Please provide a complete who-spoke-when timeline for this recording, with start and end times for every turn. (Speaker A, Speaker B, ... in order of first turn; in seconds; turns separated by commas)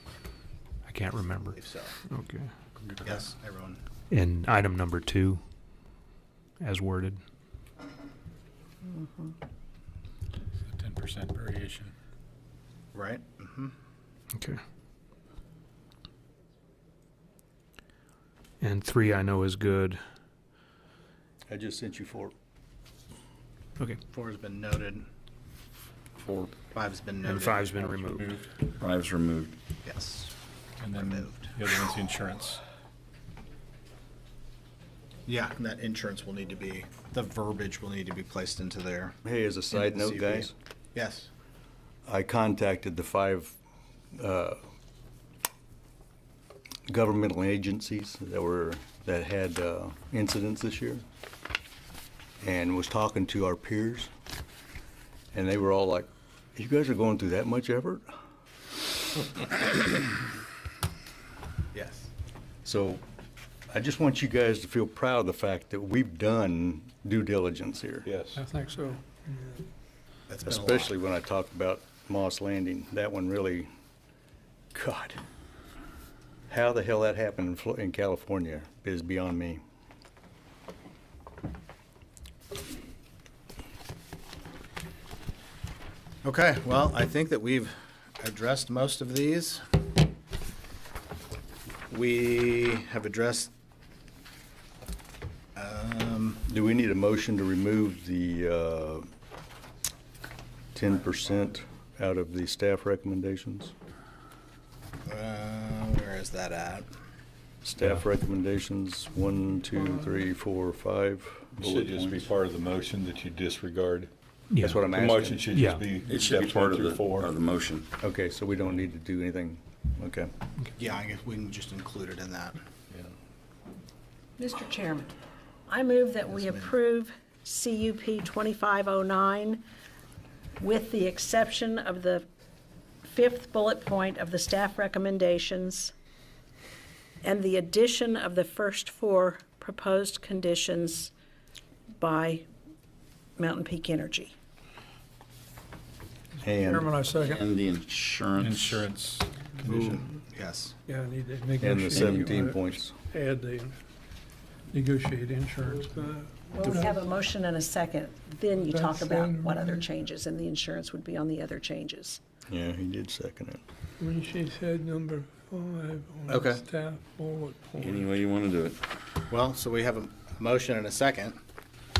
Speaker A: 0.8-2.5, Speaker B: 1.5-1.9, Speaker C: 2.8-3.2, Speaker B: 3.0-3.8, Speaker A: 4.1-5.4, Speaker A: 6.6-7.2, Speaker D: 8.9-9.3, Speaker C: 10.7-11.9, Speaker B: 12.9-13.7, Speaker A: 18.6-20.0, Speaker E: 21.5-22.3, Speaker B: 24.1-25.0, Speaker F: 26.2-26.5, Speaker B: 26.7-27.6, Speaker A: 27.2-28.3, Speaker C: 27.8-28.4, Speaker F: 28.8-29.5, Speaker B: 29.8-30.3, Speaker C: 30.8-32.6, Speaker B: 30.9-31.5, Speaker B: 35.2-39.1, Speaker E: 39.2-40.5, Speaker B: 39.7-41.3, Speaker E: 42.0-43.5, Speaker E: 44.1-44.6, Speaker E: 46.9-51.0, Speaker E: 52.4-54.1, Speaker E: 55.3-58.1, Speaker B: 61.7-62.1, Speaker E: 62.6-63.0, Speaker E: 63.7-68.1, Speaker G: 68.0-68.4, Speaker H: 68.4-69.6, Speaker B: 70.3-70.9, Speaker E: 70.5-73.7, Speaker E: 74.7-75.2, Speaker E: 76.5-79.6, Speaker B: 86.2-89.6, Speaker B: 91.9-93.5, Speaker B: 95.5-96.4, Speaker E: 96.5-99.1, Speaker E: 100.7-103.7, Speaker B: 105.0-106.8, Speaker E: 107.6-112.3, Speaker G: 111.5-114.1, Speaker A: 114.5-114.8, Speaker E: 114.6-115.5, Speaker G: 114.8-117.4, Speaker A: 115.5-115.8, Speaker F: 116.1-117.9, Speaker E: 118.0-120.3, Speaker B: 120.8-122.6, Speaker D: 124.4-125.0, Speaker D: 125.7-129.6, Speaker H: 126.1-126.7, Speaker B: 126.3-126.7, Speaker D: 130.6-132.2, Speaker D: 133.1-135.8, Speaker H: 133.8-134.5, Speaker D: 137.2-140.9, Speaker H: 138.8-141.1, Speaker D: 142.0-142.4, Speaker D: 143.4-144.3, Speaker E: 146.4-146.9, Speaker H: 146.6-147.4, Speaker F: 147.2-148.7, Speaker C: 148.4-150.0, Speaker B: 149.6-150.7, Speaker H: 150.9-153.8, Speaker E: 151.6-152.9, Speaker F: 151.9-152.2, Speaker H: 154.7-157.1, Speaker D: 156.6-162.2, Speaker H: 158.3-159.9, Speaker E: 162.5-163.6, Speaker H: 164.0-167.9, Speaker B: 166.3-166.6, Speaker F: 167.8-168.8, Speaker B: 169.3-171.3